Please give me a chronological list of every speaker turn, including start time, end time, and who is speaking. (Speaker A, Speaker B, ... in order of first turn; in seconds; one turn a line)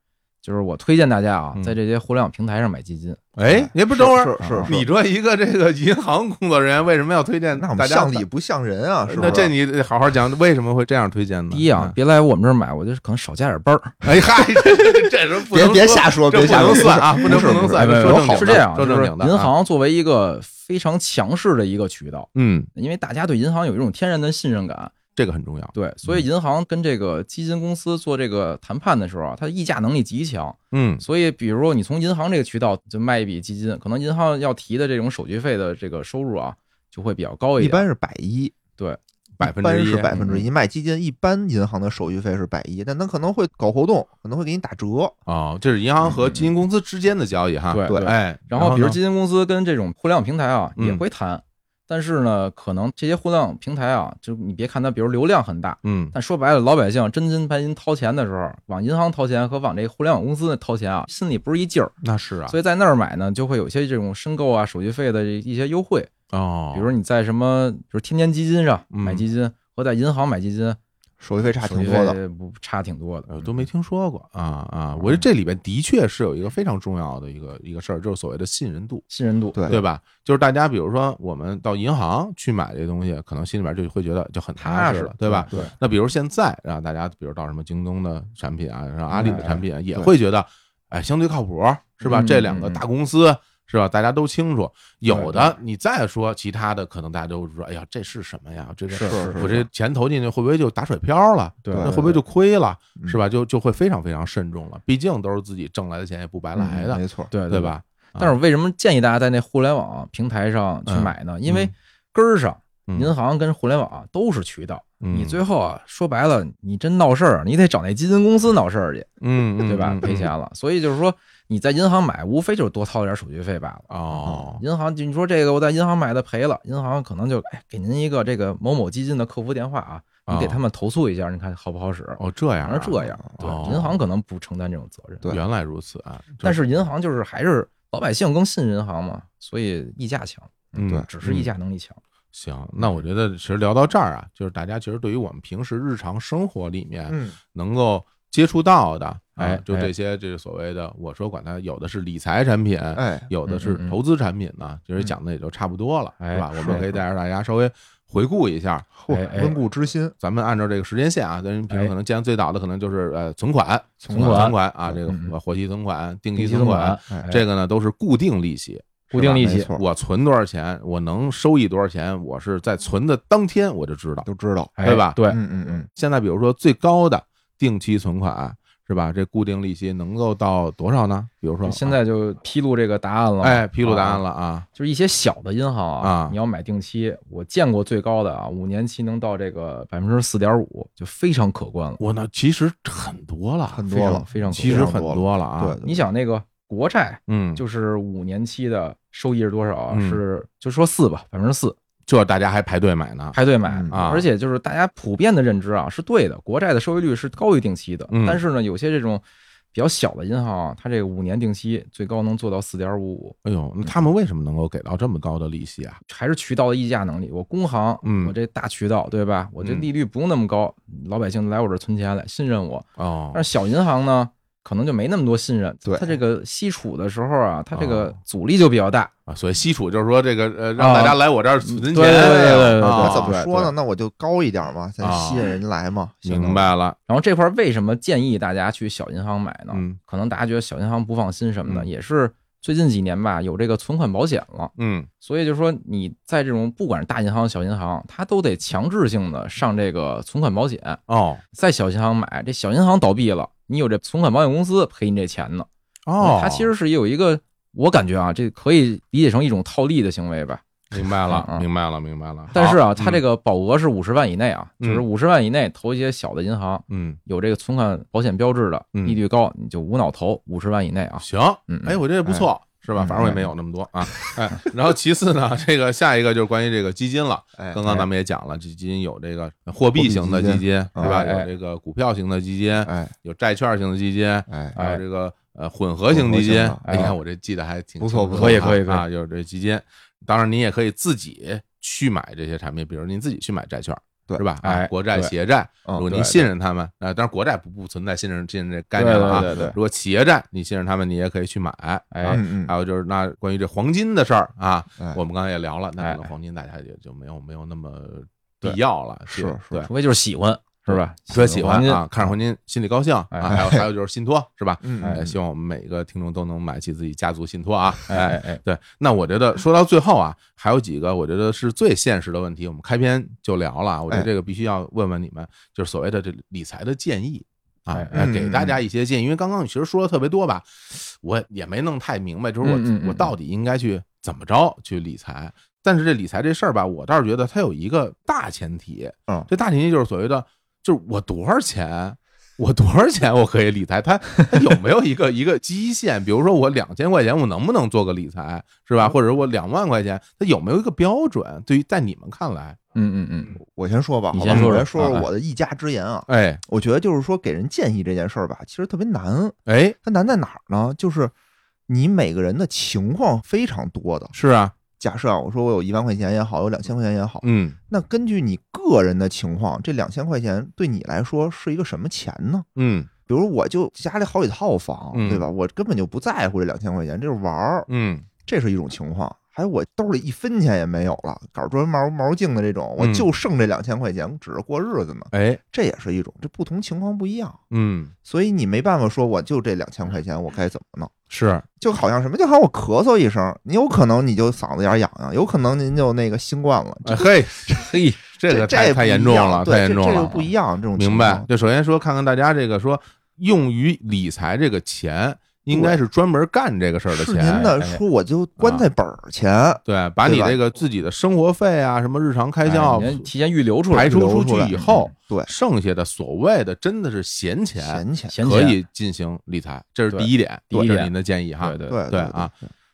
Speaker A: 0.4-3.2
Speaker B: 3.4-8.2
Speaker C: 3.5-4.8
Speaker A: 4.4-4.8
Speaker C: 7.5-9.5
Speaker B: 9.1-11.9
Speaker A: 11.5-14.1
Speaker B: 14.0-19.5
Speaker C: 15.5-18.6
Speaker A: 17.7-24.9
Speaker B: 22.3-22.7
Speaker B: 25.1-25.7
Speaker A: 25.7-37.8
Speaker B: 30.7-31.0
Speaker C: 37.6-38.5
Speaker B: 39.4-40.2
Speaker C: 39.4-45.1
Speaker A: 40.1-40.5
Speaker B: 45.3-49.0
Speaker A: 46.1-46.5
Speaker A: 47.7-61.9
Speaker B: 50.8-51.0
Speaker B: 55.8-56.1
Speaker B: 62.0-62.5
Speaker A: 62.5-66.1
Speaker B: 66.3-66.9
Speaker A: 66.7-70.8
Speaker B: 68.9-69.2
Speaker C: 71.2-72.2
Speaker A: 71.6-73.6
Speaker B: 73.3-79.0
Speaker A: 79.1-79.6
Speaker C: 79.5-79.8
Speaker B: 79.7-108.3
Speaker A: 84.6-85.7
Speaker C: 85.3-85.7
Speaker A: 89.1-89.6
Speaker A: 92.0-92.8
Speaker A: 95.1-95.6
Speaker A: 98.9-99.5
Speaker C: 99.1-99.7
Speaker A: 101.6-102.2
Speaker C: 101.7-102.2
Speaker C: 106.5-107.3
Speaker A: 107.3-119.1
Speaker B: 110.9-111.7
Speaker B: 112.9-113.1
Speaker B: 115.0-115.4
Speaker B: 119.2-120.3
Speaker A: 119.6-135.3
Speaker B: 123.9-124.6
Speaker B: 130.3-130.6
Speaker B: 132.2-134.0
Speaker B: 135.3-136.6
Speaker A: 136.4-142.0
Speaker B: 140.8-141.5
Speaker B: 142.3-158.9
Speaker C: 147.1-147.4
Speaker A: 149.4-149.9
Speaker C: 152.9-153.3
Speaker A: 153.4-154.0
Speaker A: 156.2-156.9
Speaker C: 156.6-156.9
Speaker C: 159.0-160.1
Speaker A: 159.1-159.5
Speaker B: 160.2-174.3
Speaker C: 164.0-165.0
Speaker A: 164.1-165.3
Speaker A: 166.3-167.4
Speaker A: 169.1-169.7
Speaker C: 169.3-169.8
Speaker C: 174.2-174.7
Speaker A: 174.8-175.4
Speaker B: 174.8-175.2
Speaker C: 175.3-175.9
Speaker B: 175.9-182.0
Speaker A: 181.6-184.2
Speaker B: 183.4-184.7
Speaker A: 184.7-192.0
Speaker B: 186.0-186.4
Speaker B: 192.0-195.8
Speaker C: 193.7-196.0
Speaker A: 193.9-194.9
Speaker A: 195.8-201.8
Speaker B: 197.3-197.6
Speaker B: 199.9-200.2
Speaker B: 202.1-203.4
Speaker A: 203.3-213.3
Speaker C: 203.7-204.0
Speaker B: 203.9-204.3
Speaker B: 208.1-208.4
Speaker B: 213.4-216.0
Speaker A: 216.1-229.1
Speaker B: 218.0-218.3
Speaker B: 219.6-219.9
Speaker B: 223.0-223.4
Speaker C: 225.8-226.2
Speaker B: 227.7-228.2
Speaker B: 229.3-233.3
Speaker A: 230.8-233.7
Speaker C: 232.3-236.7
Speaker B: 235.0-235.5
Speaker B: 236.2-236.9
Speaker A: 237.1-251.0
Speaker B: 239.7-240.0
Speaker B: 244.8-245.1
Speaker B: 251.1-251.4
Speaker A: 251.5-255.7
Speaker B: 256.1-256.7
Speaker A: 256.2-260.6
Speaker B: 260.9-263.2
Speaker A: 261.2-261.6
Speaker A: 262.5-272.0
Speaker B: 266.9-267.2
Speaker B: 271.2-309.9
Speaker C: 272.2-273.5
Speaker C: 277.6-278.1
Speaker C: 279.9-281.2
Speaker A: 281.0-281.5
Speaker C: 282.8-283.1
Speaker C: 284.5-284.7
Speaker A: 284.7-285.0
Speaker C: 286.1-287.1
Speaker A: 286.8-287.1
Speaker C: 288.0-288.8
Speaker A: 288.3-289.0
Speaker A: 294.6-295.3
Speaker A: 296.0-296.5
Speaker A: 298.9-299.8
Speaker C: 299.3-299.8
Speaker A: 302.1-302.4
Speaker C: 302.3-302.7
Speaker A: 306.0-306.3
Speaker C: 309.3-309.9
Speaker A: 309.8-312.0
Speaker B: 310.9-352.8
Speaker A: 313.3-313.6
Speaker C: 313.5-313.8
Speaker C: 314.8-315.3
Speaker A: 315.0-315.3
Speaker A: 318.1-318.6
Speaker A: 327.9-328.3
Speaker C: 328.1-328.8
Speaker A: 332.6-333.3
Speaker A: 352.9-353.5
Speaker C: 353.6-361.3
Speaker A: 354.3-355.3
Speaker B: 354.4-355.1
Speaker B: 356.3-356.6
Speaker B: 359.7-359.9
Speaker C: 361.9-364.3
Speaker B: 364.3-364.7
Speaker C: 365.0-372.7
Speaker B: 367.4-367.8
Speaker B: 372.8-373.1
Speaker C: 373.3-377.9
Speaker B: 375.1-375.5
Speaker B: 377.9-378.2
Speaker C: 378.4-387.6
Speaker B: 383.0-383.3
Speaker B: 385.3-385.6
Speaker B: 387.7-388.1
Speaker C: 388.2-391.1
Speaker B: 391.3-391.6
Speaker C: 391.8-397.8
Speaker B: 397.0-407.7
Speaker A: 397.8-398.2
Speaker C: 398.5-401.5
Speaker C: 405.7-406.0
Speaker C: 407.1-410.6
Speaker A: 407.5-408.0
Speaker B: 408.6-408.9
Speaker B: 409.9-413.3
Speaker A: 412.6-415.1
Speaker B: 413.9-422.5
Speaker C: 414.0-415.5
Speaker C: 417.8-418.3
Speaker A: 418.3-418.8
Speaker A: 420.1-422.0
Speaker C: 421.9-422.7